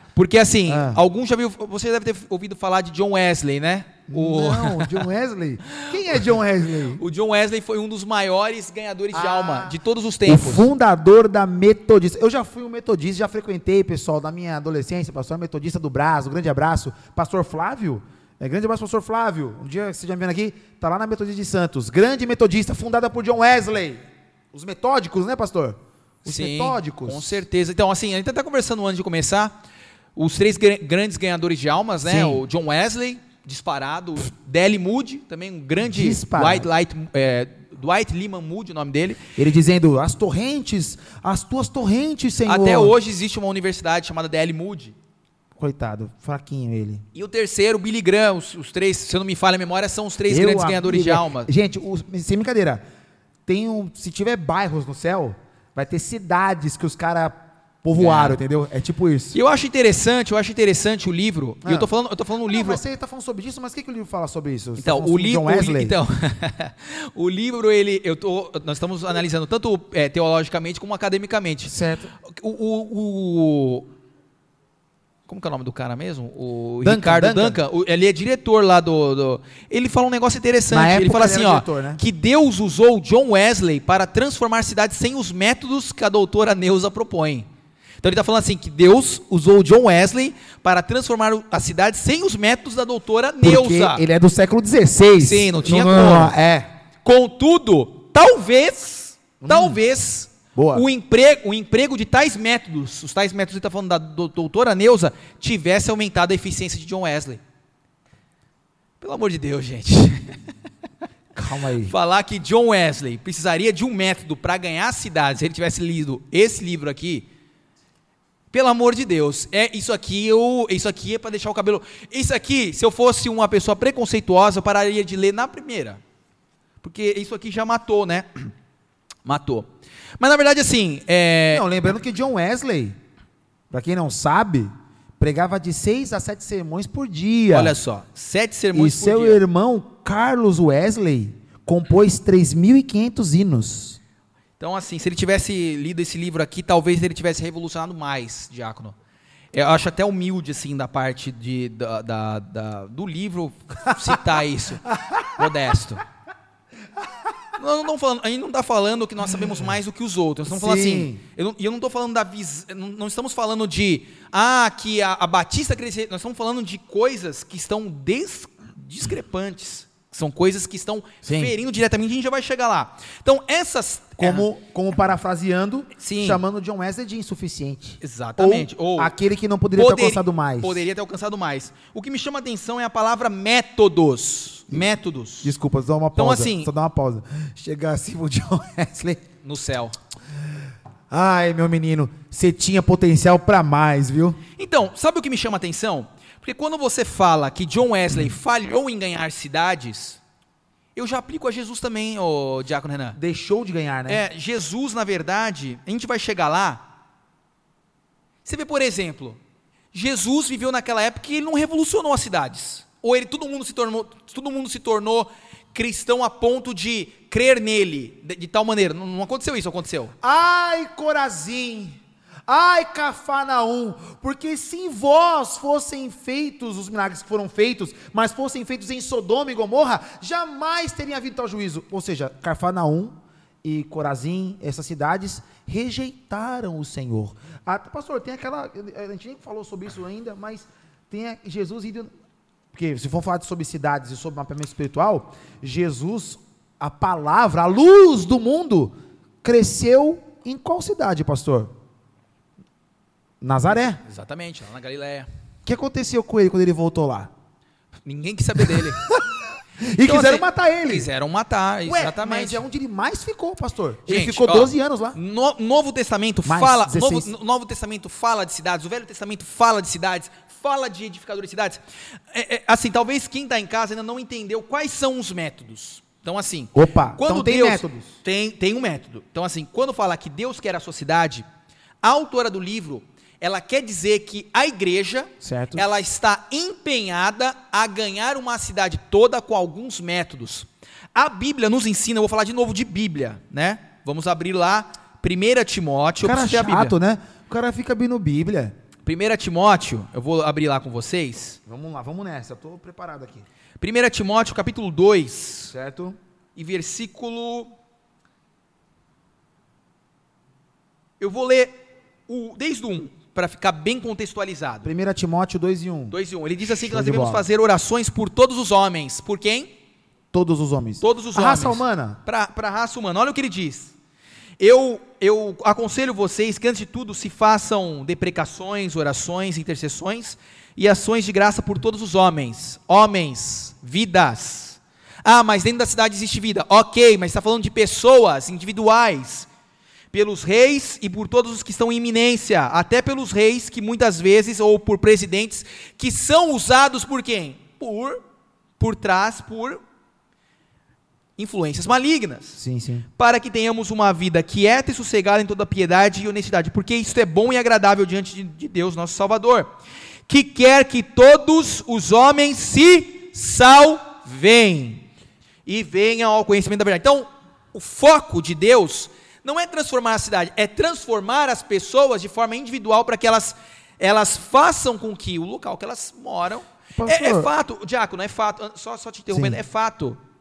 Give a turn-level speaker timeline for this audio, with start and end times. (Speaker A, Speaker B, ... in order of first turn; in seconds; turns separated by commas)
Speaker A: 0.1-5.1, Speaker B: 0.7-1.0, Speaker B: 4.1-7.0, Speaker A: 5.9-6.3, Speaker A: 7.0-10.7, Speaker B: 9.1-27.4, Speaker A: 26.3-29.6, Speaker A: 30.1-39.2, Speaker B: 32.0-32.4, Speaker B: 35.9-36.7, Speaker B: 39.4-42.9, Speaker A: 42.5-45.0, Speaker B: 45.6-47.0, Speaker A: 47.1-51.5, Speaker B: 50.3-52.8, Speaker B: 53.5-59.4, Speaker A: 58.0-58.4, Speaker A: 59.3-62.8, Speaker B: 61.6-61.9, Speaker B: 62.5-66.0, Speaker A: 64.8-71.7, Speaker B: 71.7-72.1, Speaker A: 72.2-73.9, Speaker A: 75.3-87.5, Speaker B: 76.8-77.6, Speaker B: 80.7-82.0, Speaker A: 88.0-94.0, Speaker B: 93.4-96.7, Speaker A: 95.2-96.3, Speaker A: 97.0-107.4, Speaker B: 99.4-99.8, Speaker B: 100.5-100.9, Speaker A: 109.0-110.5, Speaker B: 111.3-111.9, Speaker A: 111.8-117.3, Speaker A: 118.5-126.0, Speaker A: 126.8-128.3, Speaker A: 129.2-131.7, Speaker B: 131.5-133.0, Speaker B: 133.7-137.8, Speaker A: 137.5-139.4, Speaker B: 138.7-144.0, Speaker A: 144.6-149.0, Speaker A: 149.5-156.0, Speaker B: 154.9-155.4, Speaker A: 157.6-174.5, Speaker B: 160.5-161.2, Speaker B: 171.2-171.5, Speaker B: 174.2-180.8, Speaker A: 176.0-176.4, Speaker A: 178.0-179.1, Speaker A: 179.8-185.5, Speaker B: 185.4-189.2, Speaker A: 186.2-186.7, Speaker A: 189.4-190.0, Speaker B: 191.1-194.4, Speaker A: 194.6-200.2, Speaker A: 201.0-203.2, Speaker B: 203.2-204.2, Speaker A: 204.1-206.9, Speaker A: 208.4-209.4, Speaker A: 209.9-220.2, Speaker B: 220.2-242.1, Speaker B: 242.7-251.7, Speaker B: 253.4-254.0, Speaker A: 254.0-255.3, Speaker B: 255.7-257.3, Speaker A: 258.1-259.0, Speaker B: 258.7-259.2, Speaker B: 259.8-261.1, Speaker A: 260.0-262.6, Speaker B: 261.9-265.2, Speaker A: 264.1-281.4, Speaker B: 266.4-267.3, Speaker B: 276.7-278.2, Speaker A: 282.0-296.9, Speaker B: 285.4-285.9, Speaker B: 296.2-298.7, Speaker A: 299.1-301.6, Speaker B: 301.7-303.5, Speaker A: 303.8-305.7, Speaker B: 305.7-306.2, Speaker A: 306.6-307.7, Speaker A: 311.2-314.9, Speaker B: 314.8-316.2, Speaker A: 316.1-319.7, Speaker B: 316.8-317.4, Speaker B: 320.3-322.2, Speaker A: 321.0-323.9, Speaker A: 324.6-339.5, Speaker A: 340.1-348.2, Speaker A: 348.8-349.8, Speaker A: 351.4-352.6, Speaker B: 352.6-353.1, Speaker A: 353.2-359.7, Speaker A: 360.3-365.1, Speaker A: 365.7-380.2, Speaker B: 376.9-377.5, Speaker B: 379.3-379.6